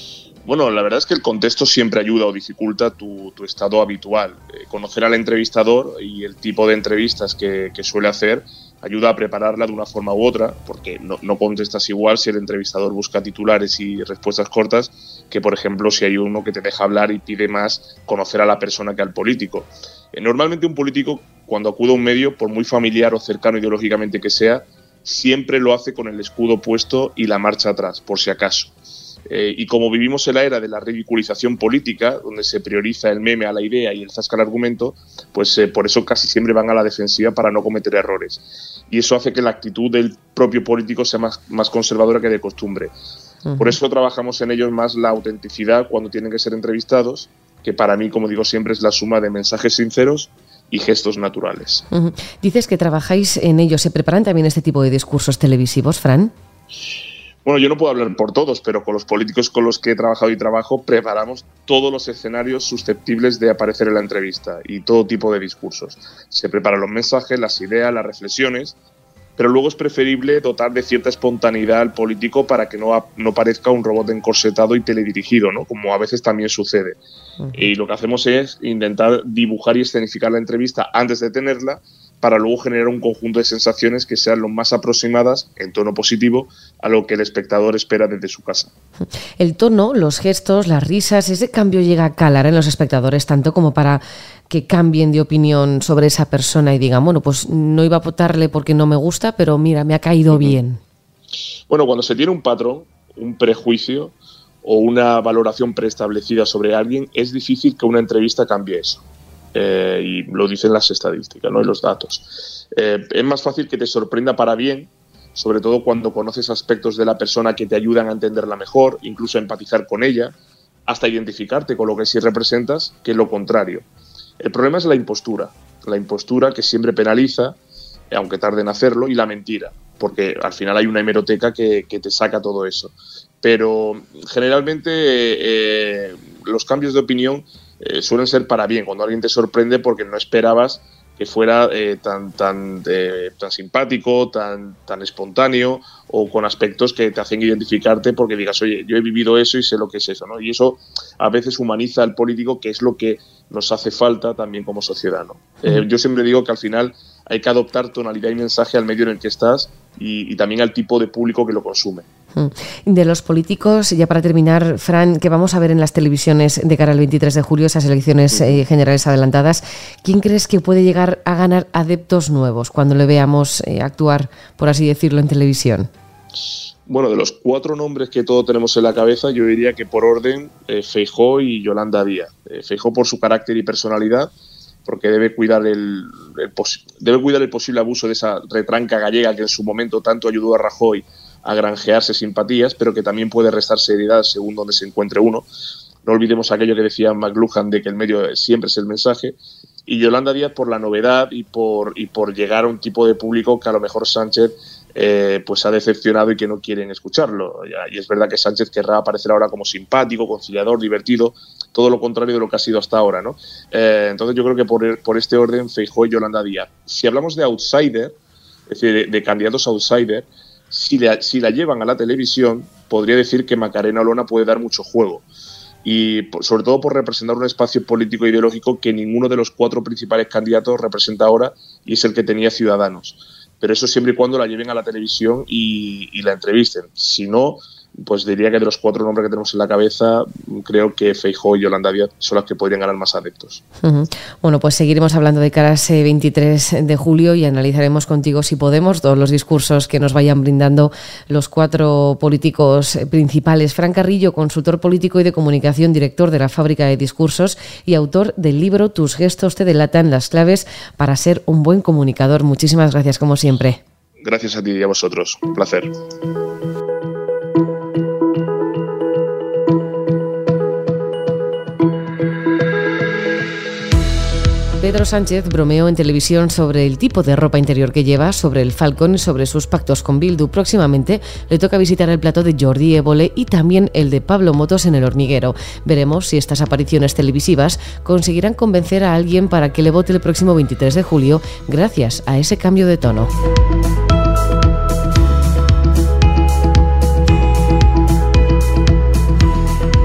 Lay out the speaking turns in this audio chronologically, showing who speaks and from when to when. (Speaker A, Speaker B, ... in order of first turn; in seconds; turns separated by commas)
Speaker A: 0.5-28.7, Speaker A: 29.3-42.9, Speaker B: 43.5-43.8, Speaker A: 43.6-51.8, Speaker B: 51.9-56.3, Speaker A: 57.5-68.7, Speaker A: 69.4-77.0, Speaker A: 77.5-88.7, Speaker B: 89.4-100.8, Speaker A: 101.7-109.0, Speaker A: 109.5-120.3, Speaker A: 120.9-123.8, Speaker A: 124.4-127.6, Speaker A: 128.1-162.1, Speaker B: 162.4-175.9, Speaker A: 176.9-184.3, Speaker A: 184.9-195.5, Speaker A: 196.1-218.2, Speaker A: 218.7-225.2, Speaker A: 225.8-243.6, Speaker B: 243.8-263.8, Speaker A: 264.2-265.9, Speaker B: 274.8-293.3